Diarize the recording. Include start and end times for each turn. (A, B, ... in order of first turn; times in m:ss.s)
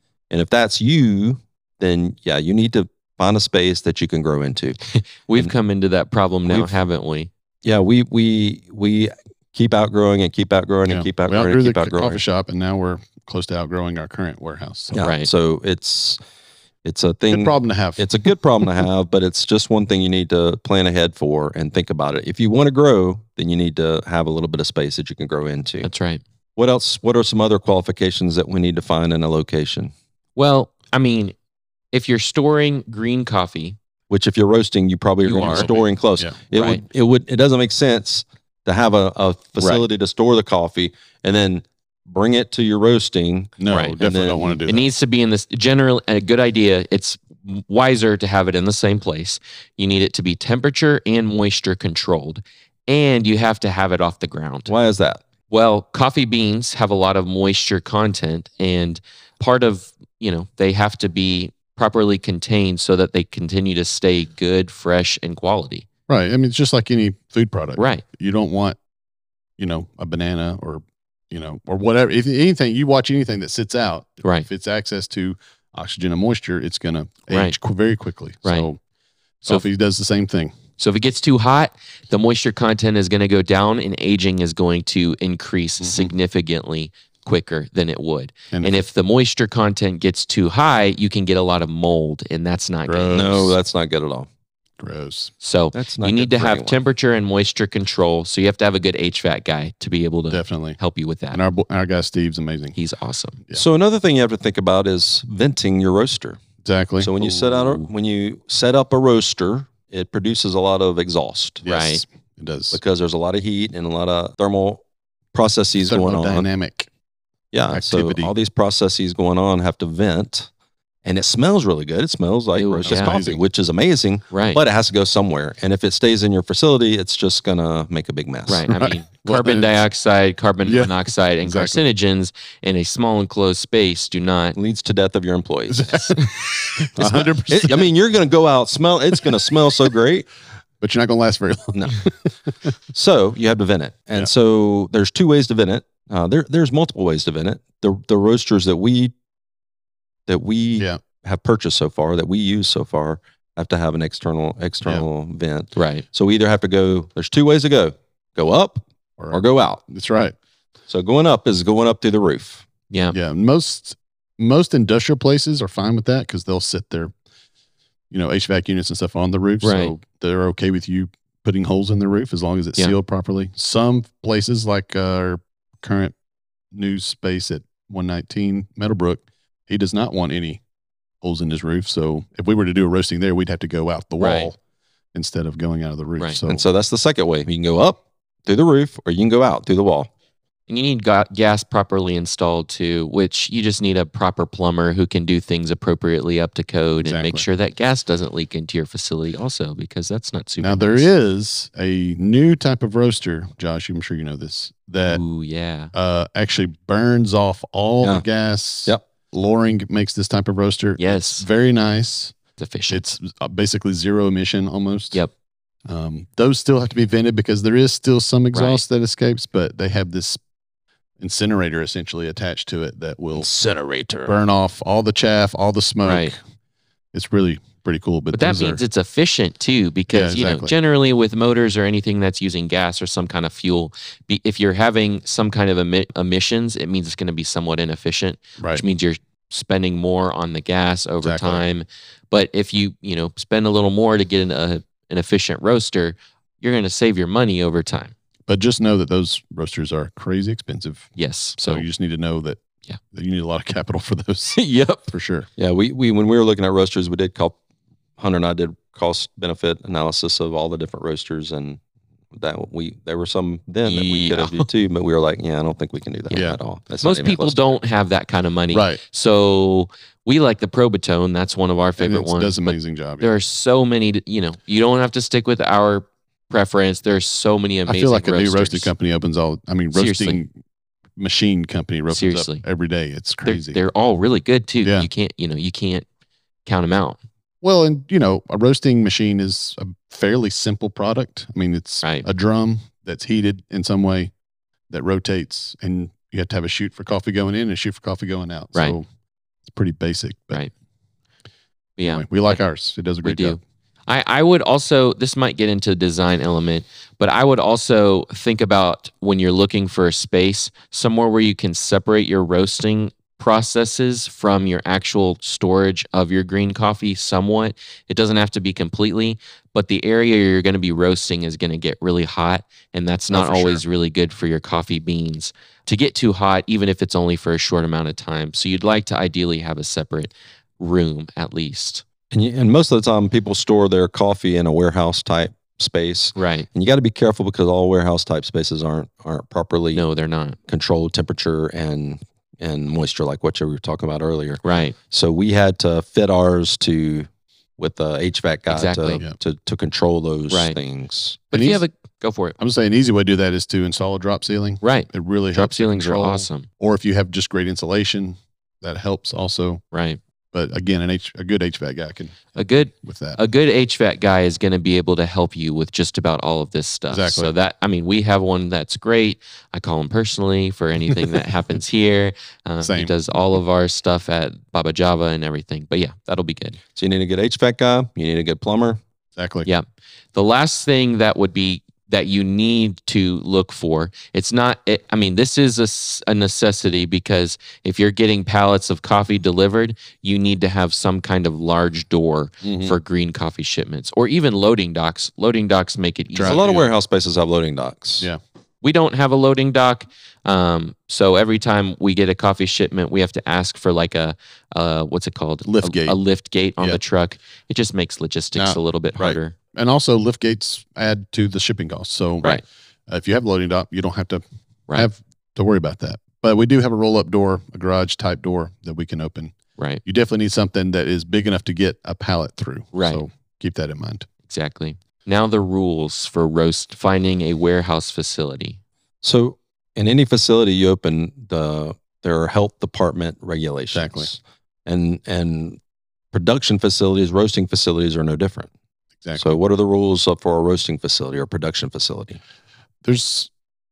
0:00.3-0:04.8 A
0:04.9-0:07.3 B
0:06.4-0:06.7 A
0:07.6-0:12.2 A
0:10.8-0:15.1 C
0:14.9-0:16.2 A
0:15.0-0:15.3 B
0:16.8-0:25.9 A
0:17.3-0:18.1 C
0:25.8-0:26.2 B
0:26.6-0:29.9 A
0:30.4-0:31.3 B
0:31.9-0:33.8 B
0:34.1-0:44.6 A
0:35.2-0:35.9 B
0:35.4-0:36.4 C
0:36.5-0:36.8 B
0:39.6-0:39.8 B
0:43.6-0:44.9 C
0:43.7-0:44.0 B
0:44.6-0:54.7 B
0:54.7-0:55.2 A
0:55.5-1:05.8 B
1:06.1-1:08.8 C
1:07.8-1:08.0 B
1:09.6-1:18.8 C
1:17.3-1:17.5 B
1:19.4-1:20.5 C
1:20.8-1:33.5 B
1:25.8-1:26.1 C
1:28.5-1:28.8 C
1:32.9-1:33.3 C
1:33.1-1:34.3 A
1:34.8-1:35.3 C
1:35.4-1:41.4 B
1:35.7-1:36.8 A
1:40.3-1:40.8 C
1:41.3-1:42.8 C
1:42.8-1:43.4 B
1:43.5-1:46.4 A
1:46.6-1:47.8 C
1:47.0-1:51.6 A
1:51.6-1:52.8 C
1:51.6-1:52.0 B
1:52.7-1:54.8 A
1:55.3-1:56.5 A
1:55.8-1:56.9 C
1:57.5-2:00.5 A
1:57.7-1:58.3 C
2:01.0-2:08.7 A
2:02.5-2:03.2 B
2:02.9-2:03.4 C
2:04.3-2:04.6 B
2:08.5-2:14.6 B
2:08.7-2:09.7 C
2:10.6-2:11.8 C
2:14.6-2:15.9 A
2:15.7-2:17.9 C
2:17.0-2:20.3 A
2:20.8-2:22.5 C
2:21.7-2:22.0 A
2:22.9-2:29.1 A
2:30.3-2:39.8 A
2:35.8-2:36.0 B
2:39.2-2:40.3 C
2:40.9-2:42.6 A
2:42.9-2:43.1 B
2:43.1-2:47.1 C
2:48.1-2:56.1 C
2:49.6-2:49.9 B
2:56.7-3:00.6 C
3:01.2-3:04.6 C
3:04.2-3:04.5 B
3:05.1-3:06.7 C
3:06.5-3:10.1 A
3:10.7-3:21.1 B
3:17.0-3:17.5 C
3:20.6-3:25.2 C
3:25.1-3:25.9 B
3:25.9-3:32.4 C
3:31.0-3:31.5 B
3:32.6-3:33.0 B
3:32.9-3:35.2 C
3:35.9-3:40.4 C
3:38.5-3:38.8 B
3:41.2-3:43.5 C
3:43.3-3:44.4 A
3:44.2-3:46.4 C
3:46.0-3:46.3 B
3:47.1-3:48.8 C
3:48.3-4:08.1 B
3:50.1-3:50.7 C
3:58.6-3:58.8 C
4:01.2-4:01.6 C
4:08.5-4:12.6 C
4:11.2-4:11.8 B
4:13.1-4:15.5 C
4:14.5-4:15.1 B
4:15.6-4:17.6 A
4:18.2-4:21.8 A
4:22.3-4:27.8 A
4:23.8-4:24.7 B
4:26.3-4:26.6 C
4:27.0-4:38.9 B
4:28.7-4:29.0 C
4:32.0-4:33.3 C
4:37.9-4:40.5 C
4:39.9-4:40.4 B
4:41.2-4:43.8 C
4:42.1-4:42.6 B
4:43.4-4:46.0 B
4:44.8-4:45.1 C
4:46.6-4:47.2 B
4:47.6-4:54.3 C
4:54.9-4:59.0 C
4:59.6-5:00.6 C
5:02.0-5:02.6 B
5:02.0-5:03.6 C
5:03.2-5:32.0 B
5:23.3-5:23.8 C
5:32.3-5:40.0 A
5:36.4-5:36.7 B
5:39.9-5:40.6 B
5:40.7-5:47.3 A
5:44.6-5:45.0 B
5:47.8-5:51.4 A
5:48.7-5:49.2 B
5:50.5-5:50.8 B
5:51.5-5:52.6 B
5:51.5-5:51.8 C
5:52.6-5:59.8 C
5:54.8-5:56.7 B
5:59.9-6:00.2 B
6:00.5-6:02.4 C
6:02.5-6:16.8 B
6:03.0-6:03.4 C
6:07.1-6:07.5 C
6:12.8-6:13.2 C
6:17.0-6:19.0 A
6:19.4-6:19.7 C
6:19.6-6:36.6 B
6:32.6-6:33.0 C
6:36.3-6:36.9 C
6:36.4-6:38.3 A
6:38.8-6:49.5 B
6:45.6-6:46.2 C
6:48.5-7:04.3 C
7:02.9-7:03.2 B
7:04.5-7:08.8 B
7:09.2-7:15.8 A
7:13.9-7:14.3 C
7:16.3-7:18.7 A
7:19.2-7:19.6 C
7:19.4-7:22.4 A
7:23.0-7:23.5 C